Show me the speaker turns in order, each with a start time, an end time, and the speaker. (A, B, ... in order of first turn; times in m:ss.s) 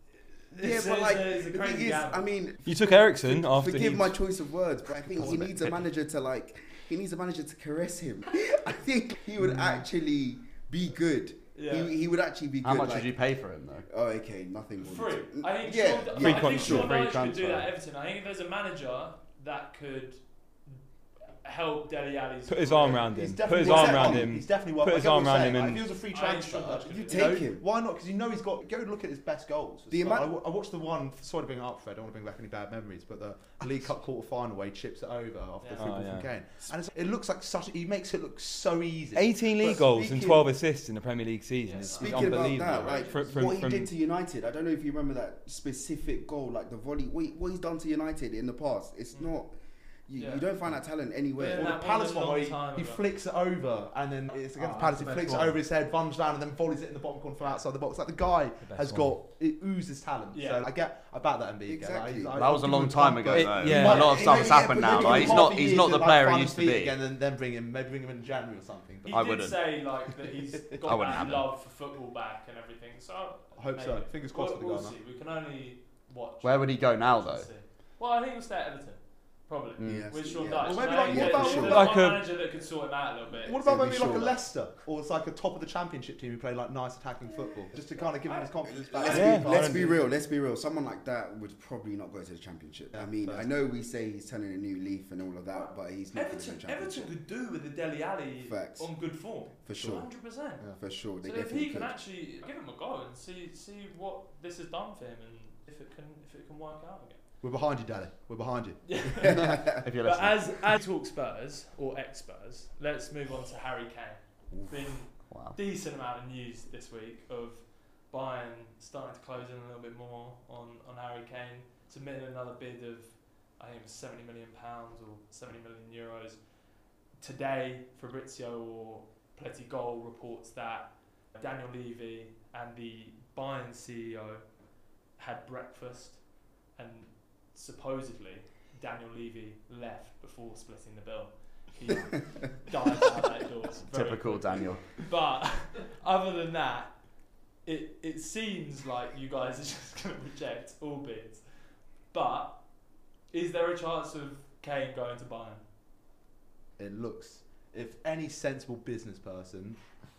0:00.5-0:02.3 A
0:00.6-0:13.2 B
0:02.6-0:04.2 C
0:05.0-0:05.6 D
0:05.2-0:05.5 C
0:09.4-0:09.8 C
0:11.6-0:11.9 A
0:12.6-0:13.9 E
0:13.9-0:17.2 B
0:14.8-0:20.2 A
0:16.2-0:17.3 C
0:21.4-0:23.1 A
0:22.5-0:25.9 C
0:23.0-0:39.8 D
0:23.6-0:24.2 B
0:26.1-0:27.4 A
0:27.0-0:27.6 B
0:29.9-0:30.3 B
0:35.6-0:36.0 A
0:35.8-0:36.3 C
0:39.2-0:43.9 C
0:39.6-0:40.4 B
0:41.6-0:43.2 A
0:41.9-0:51.7 B
0:50.2-0:50.5 A
0:51.4-0:53.0 A
0:51.4-1:09.3 D
0:54.6-0:55.5 A
0:58.7-0:59.2 C
1:00.3-1:00.7 A
1:01.7-1:02.4 B
1:02.4-1:07.0 E
1:03.3-1:04.1 C
1:03.9-1:05.6 B
1:09.1-1:23.6 A
1:09.1-1:09.8 E
1:10.6-1:10.9 D
1:10.8-1:11.6 E
1:13.6-1:15.0 D
1:16.4-1:17.5 E
1:19.8-1:20.5 E
1:19.8-1:21.8 B
1:20.5-1:21.9 D
1:21.6-1:22.3 C
1:23.4-1:30.0 D
1:23.6-1:24.4 B
1:27.2-1:29.3 A
1:28.7-1:37.1 B
1:29.1-1:29.9 C
1:32.9-1:33.4 D
1:35.5-1:40.6 A
1:38.4-1:39.1 B
1:39.6-1:41.9 B
1:39.8-1:40.0 D
1:41.2-1:47.2 A
1:47.4-1:49.1 D
1:48.8-2:06.5 A
1:49.2-1:50.6 E
1:49.5-1:49.8 B
1:54.5-1:55.6 E
2:07.2-2:14.4 A
2:15.2-2:31.4 A
2:23.9-2:24.9 E
2:32.1-2:32.7 A
2:33.3-2:35.6 A
2:36.8-2:39.8 D